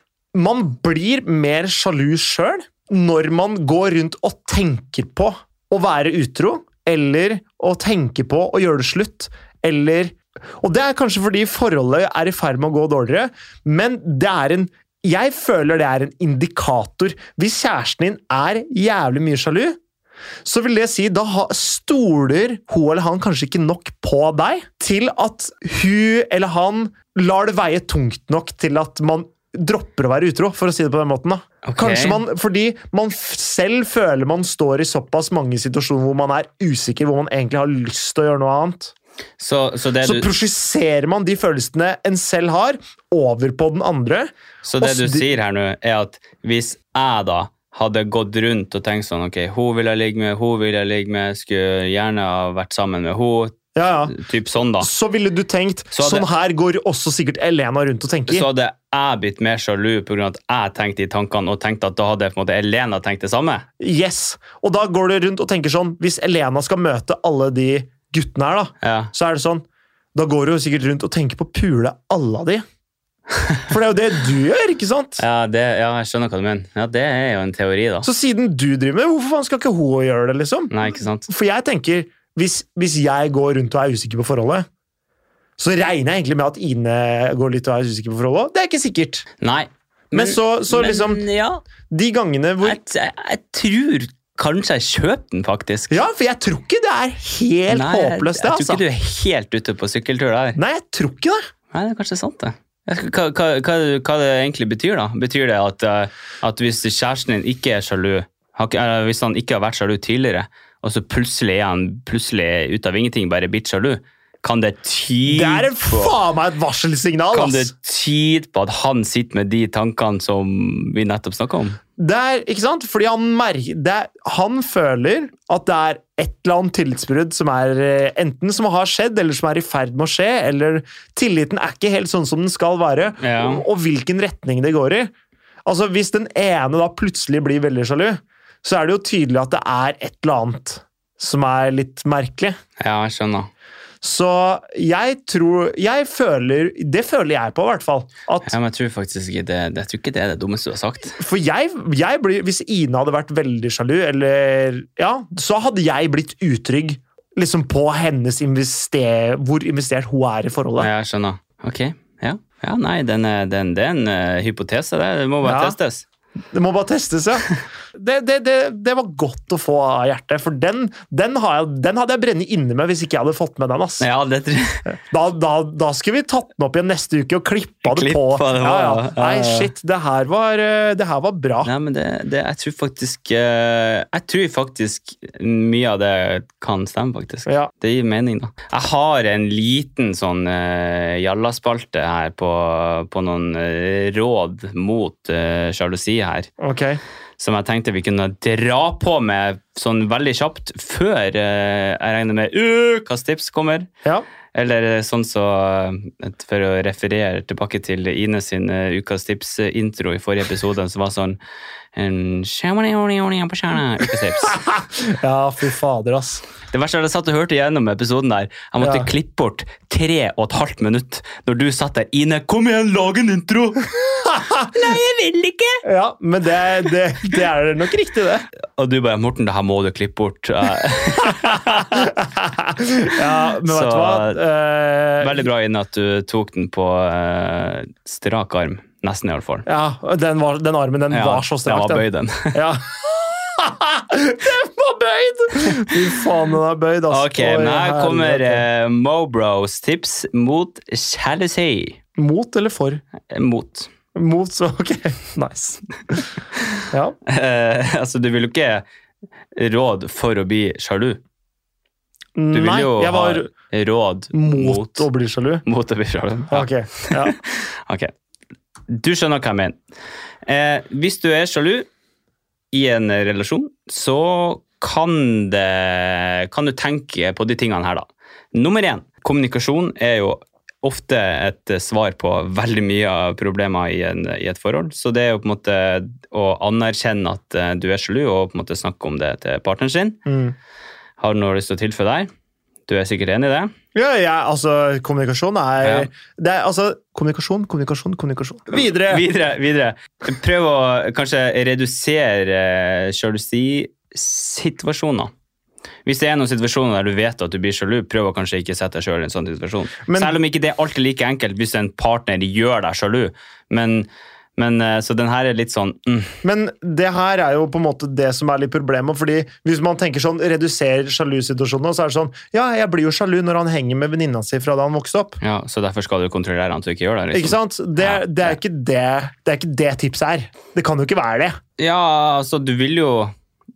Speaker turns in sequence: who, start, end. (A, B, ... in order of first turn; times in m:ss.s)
0:00.3-0:19.8 A
0:20.4-0:38.9 A
0:31.6-0:32.2 B
0:39.4-0:40.3 B
0:40.0-0:45.3 A
0:44.6-0:54.9 B
0:53.7-0:54.1 A
0:54.8-0:58.4 A
0:55.9-0:56.3 B
0:58.3-1:03.6 B
1:03.8-1:09.6 A
1:08.8-1:09.1 B
1:10.1-1:12.6 A
1:13.4-1:13.6 B
1:13.7-1:15.2 A
1:15.2-1:18.1 B
1:18.0-1:24.7 A
1:20.7-1:21.3 B
1:25.6-1:29.2 A
1:29.4-1:31.6 B
1:30.1-1:31.2 A
1:31.9-1:32.8 A
1:32.6-1:36.0 B
1:35.9-1:38.8 A
1:37.7-1:40.6 B
1:40.6-1:41.4 A
1:41.7-1:56.1 B
1:55.3-1:57.7 A
1:57.3-2:01.8 B
2:02.0-2:15.1 A
2:13.2-2:13.6 B
2:15.6-2:22.6 A
2:22.8-2:23.5 B
2:24.0-2:28.5 A
2:28.4-2:31.2 B
2:31.2-2:40.9 A
2:40.8-2:46.0 B
2:45.4-2:45.8 A
2:46.5-2:54.1 A
2:54.0-2:54.8 B
2:54.8-3:01.7 A
2:57.8-2:59.7 B
3:01.6-3:16.5 B
3:16.6-3:17.0 A
3:17.4-3:23.9 B
3:24.5-3:31.4 B
3:31.9-3:34.6 B
3:34.4-3:36.4 A
3:36.7-3:45.8 B
3:38.8-3:39.1 A
3:44.3-3:44.7 A
3:45.8-3:48.4 A
3:48.8-3:52.1 B
3:51.4-3:55.5 A
3:53.2-3:54.4 B
3:55.2-3:59.6 B
3:59.6-4:08.6 A
4:01.1-4:02.6 B
4:07.1-4:12.0 B
4:12.2-4:13.0 A
4:13.3-4:13.9 B
4:14.1-4:16.3 A
4:16.9-4:17.2 A
4:17.2-4:18.8 B
4:19.5-4:21.2 B
4:22.4-4:23.5 A
4:22.5-4:25.0 B
4:24.3-4:25.6 A
4:25.6-4:28.1 B
4:26.5-4:27.4 A
4:28.9-4:29.8 B
4:30.4-4:31.9 B
4:32.7-4:50.2 B
4:50.2-4:50.5 A
4:51.2-4:52.3 B
4:52.9-4:53.7 B
4:53.9-4:59.2 A
4:55.8-4:56.1 B
4:58.7-5:05.3 B
5:06.0-5:16.4 B
5:10.0-5:10.4 A
5:16.4-5:25.4 A
5:25.4-5:28.6 B
5:27.3-5:31.6 A
5:31.8-5:33.3 B